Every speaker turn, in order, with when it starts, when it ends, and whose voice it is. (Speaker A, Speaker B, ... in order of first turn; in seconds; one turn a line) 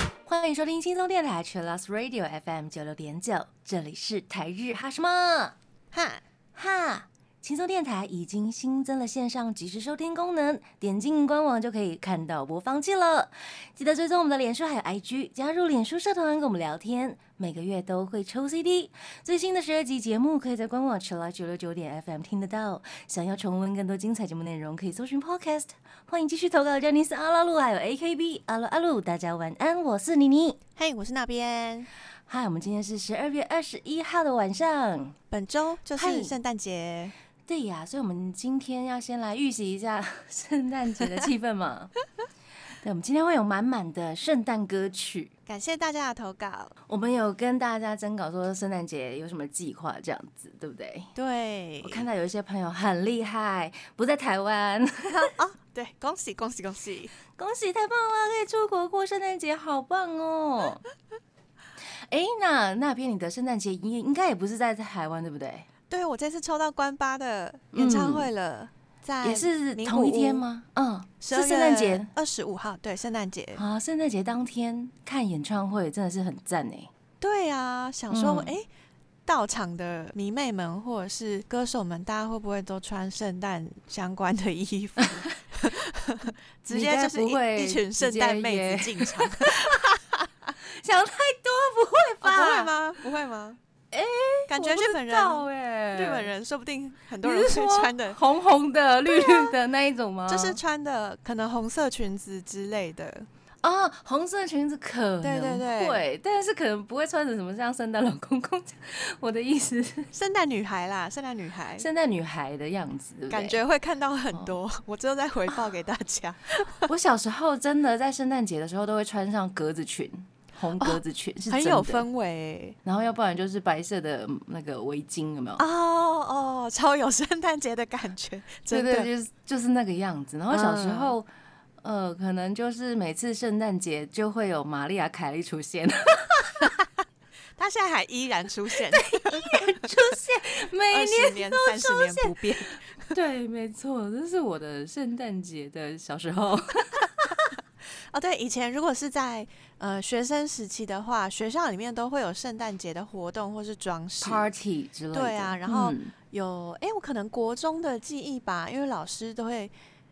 Speaker A: 0.2-5.5
Speaker B: 5.9-6.2
Speaker A: 6.6-30.6
Speaker B: 30.8-31.9
Speaker A: 32.3-35.2
Speaker B: 35.3-37.1
Speaker A: 36.0-36.4
Speaker A: 37.5-41.9
Speaker A: 42.8-45.3
Speaker B: 45.5-46.7
Speaker A: 46.9-51.1
Speaker B: 51.2-52.1
Speaker A: 51.8-55.3
Speaker B: 55.1-57.1
Speaker A: 57.4-60.8
Speaker A: 62.1-65.7
Speaker B: 65.9-70.5
Speaker A: 67.7-68.3
Speaker A: 69.2-72.1
Speaker B: 71.2-73.6
Speaker A: 73.6-76.9
Speaker B: 77.2-78.7
Speaker A: 78.1-78.5
Speaker B: 79.3-90.5
Speaker A: 85.0-85.3
Speaker A: 86.7-89.9
Speaker A: 90.6-92.7
Speaker B: 92.2-93.6
Speaker A: 93.9-96.3
Speaker B: 94.5-98.2
Speaker A: 97.2-100.6
Speaker B: 99.1-99.5
Speaker B: 100.3-103.3
Speaker A: 103.6-110.1
Speaker B: 105.2-106.0
Speaker B: 110.2-111.9
Speaker A: 111.8-113.6
Speaker B: 113.3-116.9
Speaker A: 116.9-122.1
Speaker B: 120.8-122.8
Speaker A: 122.8-125.6
Speaker B: 125.6-129.1
Speaker A: 128.7-131.3
Speaker B: 130.5-131.2
Speaker A: 131.8-136.7
Speaker B: 137.6-140.1
Speaker A: 138.9-147.5
Speaker B: 140.9-143.1
Speaker B: 148.1-154.5
Speaker A: 154.2-156.1
Speaker B: 155.1-159.7